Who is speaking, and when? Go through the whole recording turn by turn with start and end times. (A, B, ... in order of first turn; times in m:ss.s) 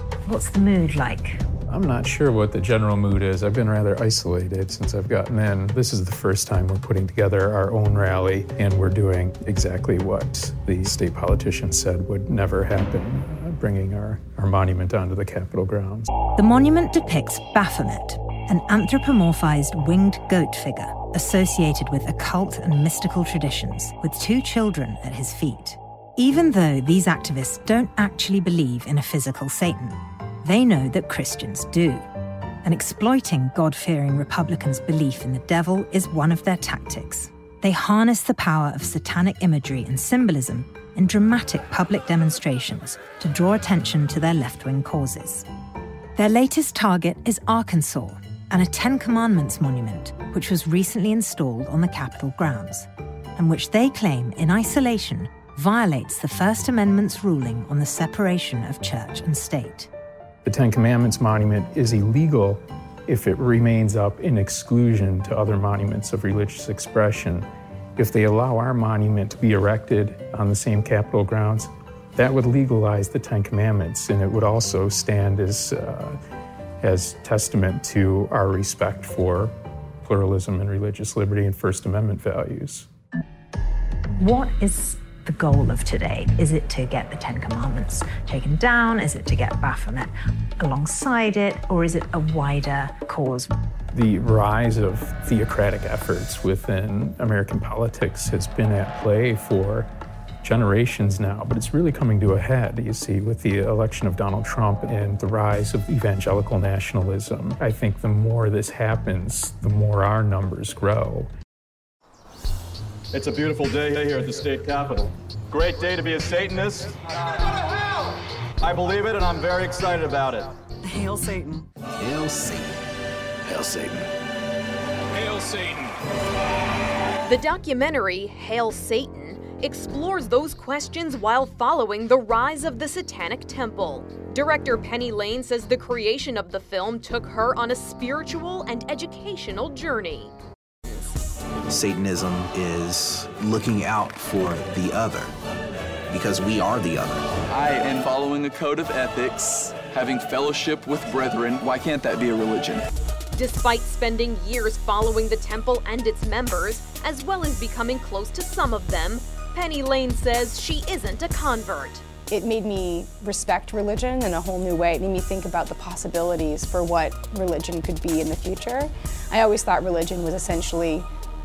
0:00.3-0:01.4 A
0:01.7-0:16.1 B
0:16.4-0:32.1 A
0:32.6-0:45.4 A
0:46.2-0:59.9 A
1:00.4-1:16.2 B
1:16.8-1:19.5 B
1:20.0-1:22.9 B
1:24.2-1:33.5 A
1:33.9-1:39.9 B
1:40.4-1:51.3 B
1:53.1-1:57.1 C
1:58.6-2:00.6 C
2:02.0-2:02.8 D
2:03.5-2:04.0 E
2:05.1-2:05.9 E
2:07.3-2:20.3 F
2:21.7-2:25.3 D
2:26.1-2:27.3 D
2:27.5-2:32.9 E
2:33.4-2:42.0 F
2:42.3-2:51.1 G